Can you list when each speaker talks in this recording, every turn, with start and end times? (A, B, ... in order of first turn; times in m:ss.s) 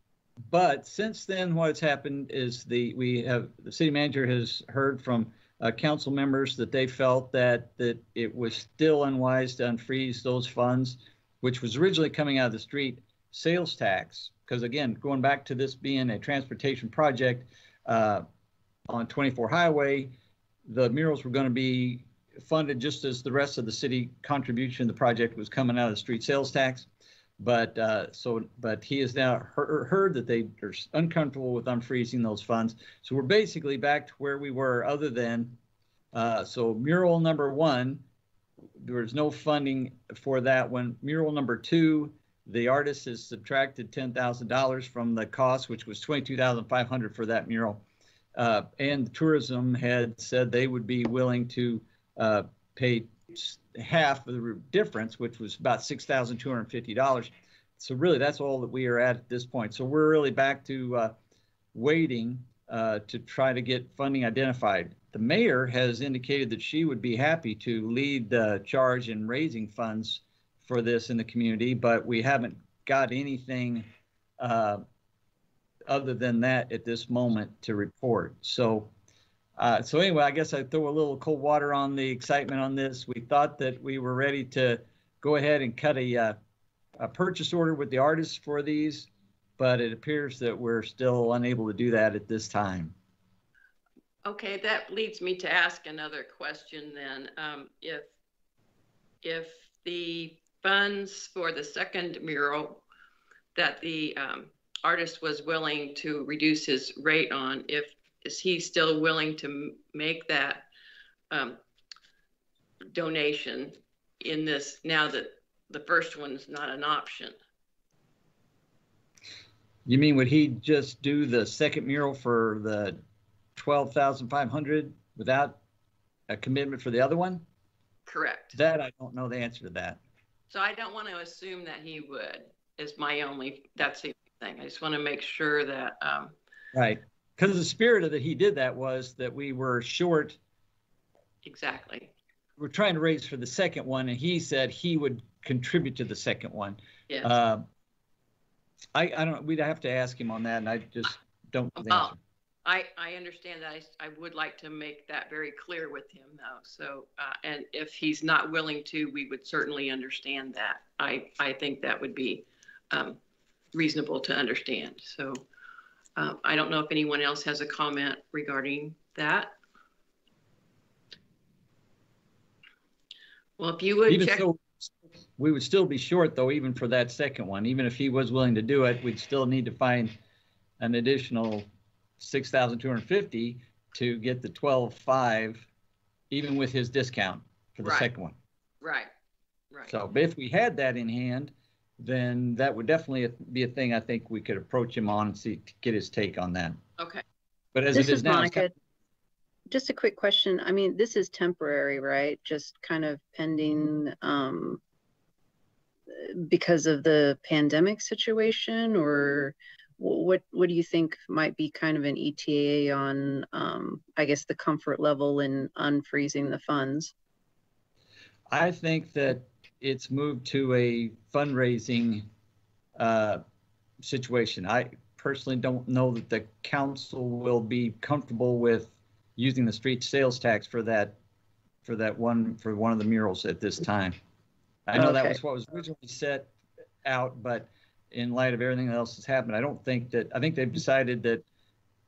0:00.5-0:18.2 A
0:18.9-0:20.1 A
0:20.6-0:26.9 A
0:27.4-0:35.6 A
0:36.1-0:38.0 A
0:38.8-0:47.8 A
0:48.4-1:01.1 A
1:01.7-1:13.9 A
1:14.4-1:14.8 A
1:15.9-1:18.9 A
1:19.6-1:26.4 A
1:27.0-1:32.9 A
1:34.2-1:38.1 B
1:39.2-1:42.8 B
1:43.5-1:50.7 B
1:51.3-1:51.6 B
1:52.9-1:57.4 B
1:59.8-2:03.0 A
2:03.6-2:05.6 A
2:06.3-2:07.4 A
2:08.0-2:08.6 B
2:08.5-2:10.0 A
2:10.5-2:16.3 B
2:16.7-2:20.4 A
2:21.4-2:22.1 B
2:22.6-2:27.6 A
2:28.9-2:32.2 A
2:31.8-2:32.1 B
2:32.6-2:43.2 B
2:43.7-2:45.4 B
2:46.2-2:49.5 B
2:53.6-2:54.4 B
2:54.1-3:00.2 A
3:00.8-3:01.7 A
3:02.2-3:05.7 A
3:06.3-3:08.4 A
3:07.8-3:08.1 B
3:08.8-3:09.1 B
3:09.9-3:16.8 A
3:17.0-3:17.2 B
3:17.7-3:18.6 A
3:17.9-3:18.7 C
3:19.7-3:24.8 C
3:26.1-3:37.1 C
3:38.5-3:42.3 A
3:43.0-3:43.4 A
3:44.0-3:51.2 A
3:51.8-3:54.2 A
3:54.9-3:56.5 A
3:55.0-3:55.4 C
3:57.0-4:01.4 A